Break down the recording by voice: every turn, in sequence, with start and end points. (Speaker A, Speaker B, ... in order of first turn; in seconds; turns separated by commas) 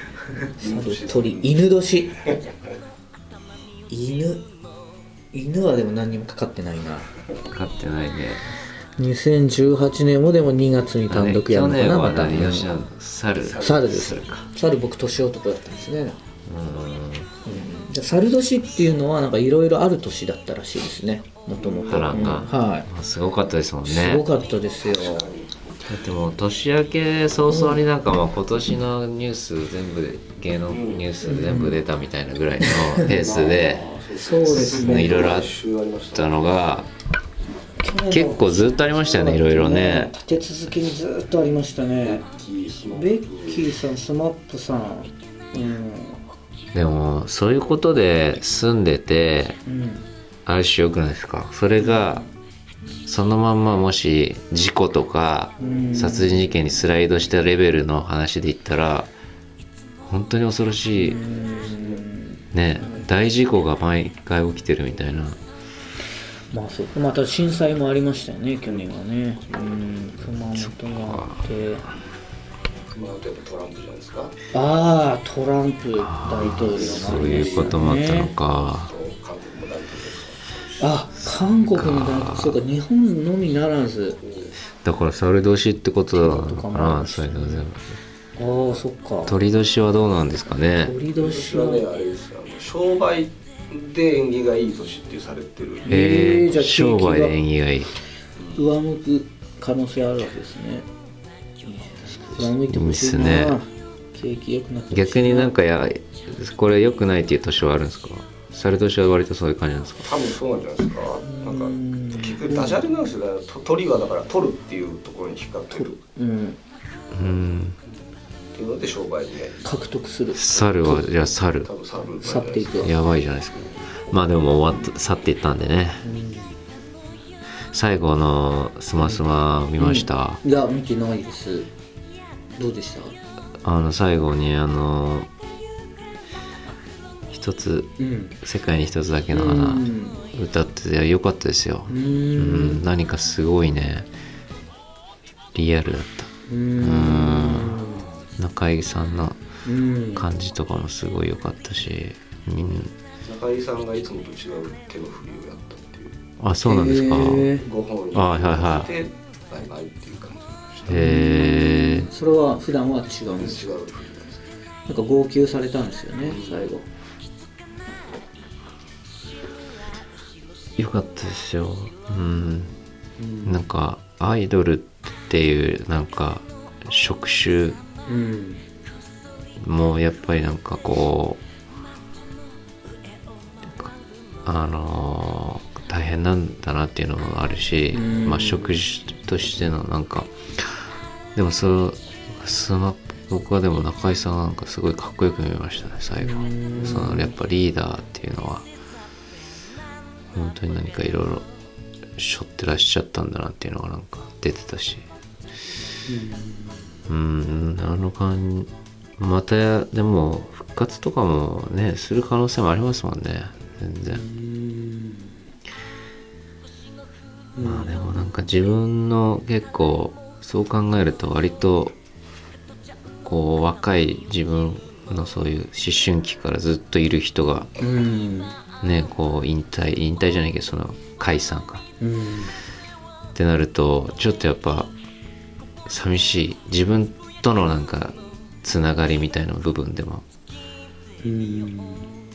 Speaker A: 0.6-1.6, Speaker B: 0.6-2.2, Speaker B: 3.9-4.5, Speaker B: 5.3-7.1, Speaker C: 7.5-8.5, Speaker B: 9.0-12.7, Speaker C: 11.1-14.5, Speaker A: 13.4-13.9, Speaker B: 13.6-16.2, Speaker C: 16.5-17.3, Speaker B: 17.4-22.9, Speaker A: 21.6-22.4, Speaker C: 21.9-24.2, Speaker B: 23.9-25.3, Speaker A: 24.9-25.8, Speaker C: 25.9-33.8, Speaker B: 27.5-27.8, Speaker A: 30.7-31.1, Speaker B: 31.2-31.8, Speaker B: 32.7-33.0, Speaker A: 33.0-36.4, Speaker B: 34.2-35.3, Speaker C: 34.5-35.5, Speaker C: 36.1-36.9, Speaker B: 37.8-42.3, Speaker C: 38.1-40.1, Speaker A: 42.0-43.7, Speaker B: 42.9-46.2, Speaker C: 46.7-49.6, Speaker B: 49.7-50.1, Speaker C: 50.5-52.3, Speaker C: 53.1-59.1, Speaker B: 55.6-56.5, Speaker C: 60.0-61.2, Speaker B: 61.0-63.1, Speaker A: 61.5-62.0, Speaker C: 62.5-65.4, Speaker B: 66.5-71.9, Speaker C: 70.5-71.4, Speaker A: 72.9-74.4, Speaker B: 74.5-78.3, Speaker C: 76.0-78.9, Speaker A: 76.7-80.9, Speaker B: 80.8-84.2, Speaker C: 81.2-82.6, Speaker A: 84.2-84.5, Speaker C: 84.8-88.0, Speaker B: 86.1-87.6, Speaker B: 88.4-89.3, Speaker C: 89.3-91.0, Speaker B: 90.8-91.9, Speaker A: 91.2-95.9, Speaker B: 95.8-97.3, Speaker C: 95.9-97.9, Speaker B: 98.5-100.9, Speaker B: 101.6-105.5, Speaker C: 102.6-103.6, Speaker C: 104.9-110.1, Speaker A: 110.0-115.9, Speaker B: 111.2-112.8, Speaker B: 115.7-116.6, Speaker C: 117.1-117.8, Speaker A: 118.5-119.6, Speaker B: 119.6-121.0, Speaker C: 120.3-121.7, Speaker A: 121.6-122.9, Speaker B: 122.2-122.9, Speaker C: 122.8-126.0, Speaker B: 126.0-126.6, Speaker C: 127.7-130.4, Speaker B: 129.8-131.7, Speaker B: 132.6-133.2, Speaker C: 133.6-135.3, Speaker C: 137.3-144.1, Speaker B: 138.0-138.3, Speaker B: 139.3-140.2, Speaker B: 141.9-142.8, Speaker C: 145.5-147.8, Speaker B: 146.5-148.1, Speaker C: 148.4-149.4, Speaker B: 149.7-150.3, Speaker C: 150.1-152.9, Speaker A: 153.2-156.2, Speaker C: 156.4-157.5, Speaker B: 156.7-157.7, Speaker A: 157.6-161.1, Speaker C: 158.1-158.9, Speaker C: 160.9-162.1, Speaker B: 160.9-163.6, Speaker A: 163.4-164.4, Speaker B: 164.9-166.9, Speaker A: 166.2-166.7, Speaker C: 170.8-172.8, Speaker B: 173.2-173.6, Speaker C: 173.4-177.8, Speaker B: 178.1-178.6, Speaker C: 179.6-181.4, Speaker C: 183.7-190.8, Speaker B: 187.9-188.8, Speaker C: 191.3-198.7, Speaker B: 196.2-197.3, Speaker C: 200.3-201.5, Speaker C: 202.2-205.1, Speaker B: 206.1-206.8, Speaker C: 207.1-214.2, Speaker B: 214.1-215.3, Speaker B: 217.6-218.3, Speaker C: 217.6-222.0, Speaker C: 223.2-227.7, Speaker B: 227.8-228.6, Speaker C: 228.8-231.8, Speaker B: 232.0-232.6, Speaker C: 233.3-234.9, Speaker C: 235.9-240.2, Speaker B: 241.2-242.1